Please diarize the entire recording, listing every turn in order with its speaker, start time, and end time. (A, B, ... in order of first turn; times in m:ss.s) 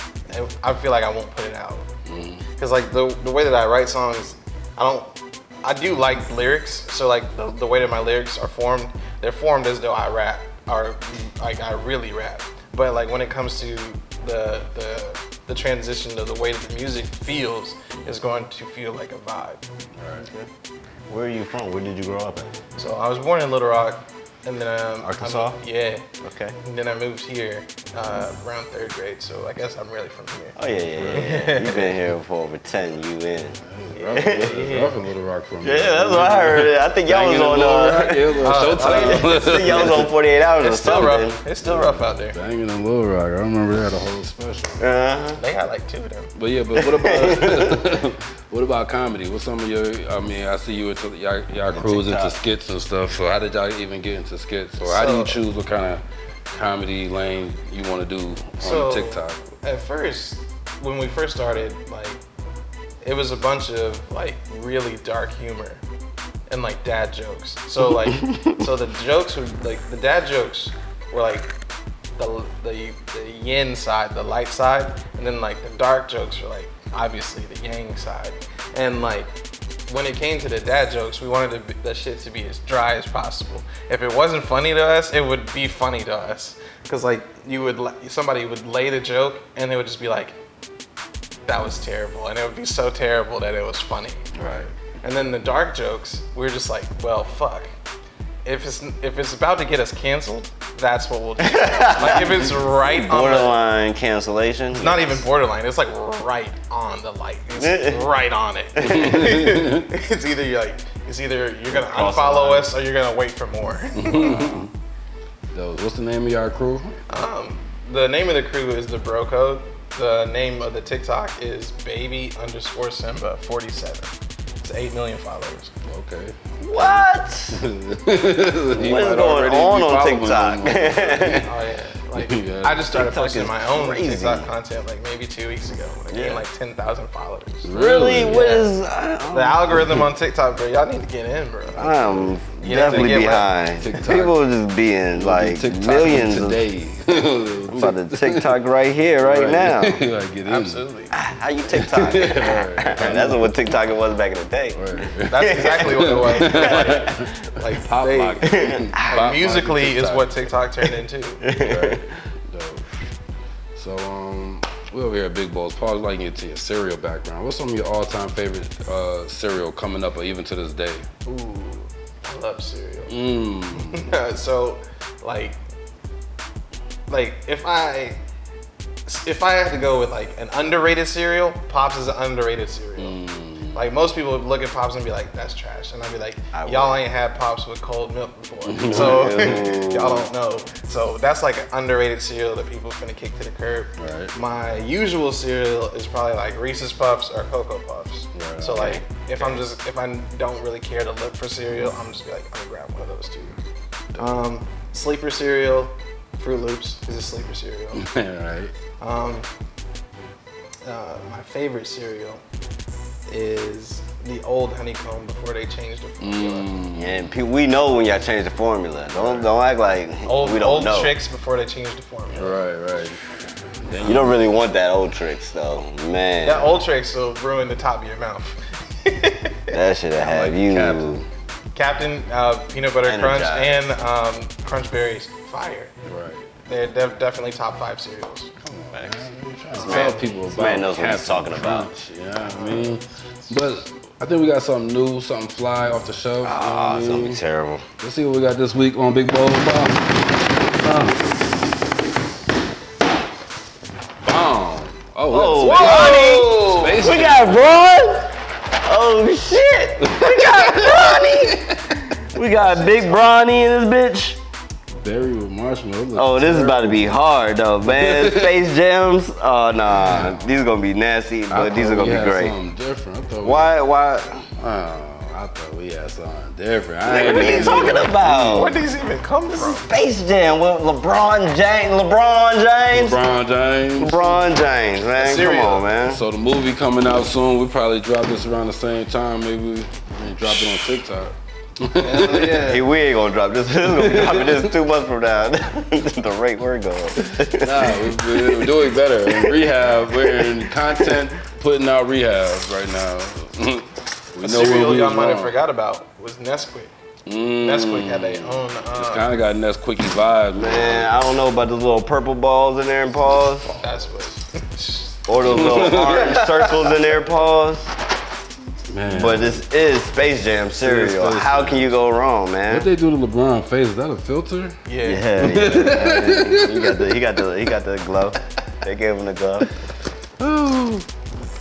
0:00.3-0:01.8 A
0:02.0-0:02.4 B
0:02.6-0:05.1 A
0:05.6-0:19.6 A
0:19.9-0:20.3 B
0:20.2-0:20.5 C
0:21.1-0:22.6 C
0:22.8-0:26.0 A
0:25.0-0:25.6 C
0:26.2-0:26.6 C
0:26.6-0:30.6 A
0:30.6-0:34.9 C
0:31.0-0:31.2 B
0:31.1-0:32.0 A
0:33.6-0:40.1 B
0:35.6-0:41.4 C
0:38.4-0:42.4 A
0:41.6-0:44.8 B
0:44.8-0:45.4 C
0:45.4-0:46.3 A
0:46.3-0:59.4 B
0:46.7-0:47.9 C
0:51.7-0:52.3 C
0:54.8-0:55.4 A
0:58.6-1:02.2 A
1:03.0-1:05.8 A
1:06.5-1:11.5 A
1:08.0-1:08.6 C
1:12.2-1:19.3 A
1:19.9-1:30.3 A
1:31.4-1:34.3 A
1:34.3-1:34.7 B
1:35.0-1:37.7 A
1:38.4-1:43.6 A
1:41.4-1:45.2 C
1:44.7-1:54.5 A
1:47.6-1:48.1 C
1:48.8-1:49.9 B
1:51.7-1:52.7 C
1:53.9-1:54.7 B
1:55.5-1:57.0 B
1:57.1-2:04.1 A
2:04.6-2:05.7 A
2:05.8-2:11.5 B
2:06.6-2:07.6 C
2:08.7-2:11.5 C
2:11.2-2:17.7 A
2:12.2-2:12.9 B
2:12.9-2:14.5 C
2:16.1-2:16.4 C
2:17.6-2:18.5 B
2:17.7-2:20.0 C
2:18.2-2:18.7 A
2:19.3-2:23.5 A
2:21.8-2:26.6 C
2:22.7-2:24.4 B
2:25.2-2:28.6 B
2:27.7-2:30.0 C
2:29.2-2:30.8 B
2:30.4-2:31.1 A
2:31.1-2:37.3 C
2:31.8-2:33.5 B
2:34.7-2:40.3 B
2:35.3-2:41.4 A
2:38.4-2:39.3 C
2:41.4-2:42.0 C
2:41.6-2:42.8 B
2:43.7-2:51.1 B
2:51.2-2:53.2 A
2:53.1-2:54.1 B
2:53.7-2:55.6 A
2:57.1-2:58.2 A
2:59.0-3:03.2 A
3:03.0-3:03.9 B
3:03.7-3:23.6 A
3:06.5-3:07.0 C
3:08.6-3:09.7 B
3:08.8-3:10.3 C
3:14.0-3:14.3 B
3:18.3-3:19.0 B
3:24.2-3:28.0 A
3:27.9-3:28.7 B
3:29.0-3:29.5 A
3:30.8-3:32.4 A
3:33.3-3:36.7 A
3:36.2-3:37.2 B
3:37.0-3:41.2 C
3:39.1-3:39.5 B
3:40.2-3:42.6 A
3:42.3-3:43.2 B
3:43.8-3:44.4 B
3:44.0-3:46.8 C
3:46.4-3:49.8 A
3:49.7-3:51.2 C
3:50.2-3:51.3 B
3:51.7-3:55.9 A
3:53.0-3:53.9 C
3:56.0-3:56.5 B
3:56.7-3:58.5 A
3:58.6-4:07.4 B
3:58.9-3:59.2 C
3:59.7-4:01.9 C
3:59.8-4:00.3 A
4:02.6-4:02.9 A
4:06.4-4:07.8 C
4:08.0-4:10.2 B
4:10.7-4:11.3 B
4:14.2-4:17.6 B
4:15.3-4:24.4 C
4:15.6-4:16.9 A
4:20.1-4:22.0 B
4:22.6-4:23.2 A
4:25.0-4:27.1 B
4:26.1-4:32.6 C
4:27.8-4:28.6 B
4:29.9-4:30.4 B
4:31.5-4:33.7 B
4:33.4-4:34.5 C
4:34.6-4:38.8 B
4:37.0-4:38.8 C
4:37.1-4:39.8 A
4:39.5-4:43.2 C
4:42.9-4:44.4 B
4:44.0-4:46.2 C
4:45.2-4:45.9 A
4:46.1-4:52.6 B
4:52.0-4:52.8 A
4:52.6-5:01.2 C
4:53.8-4:54.7 B
4:57.2-5:05.5 B
5:04.4-5:06.9 A
5:07.3-5:11.2 B
5:07.6-5:09.2 A
5:10.6-5:13.7 C
5:13.8-5:17.0 A
5:15.3-5:17.9 C
5:15.4-5:16.4 B
5:18.9-5:19.6 B
5:19.1-5:22.9 C
5:20.8-5:22.0 B
5:22.7-5:24.8 B
5:24.9-5:25.2 A
5:25.0-5:29.7 C
5:25.4-5:27.2 B
5:30.4-5:31.1 B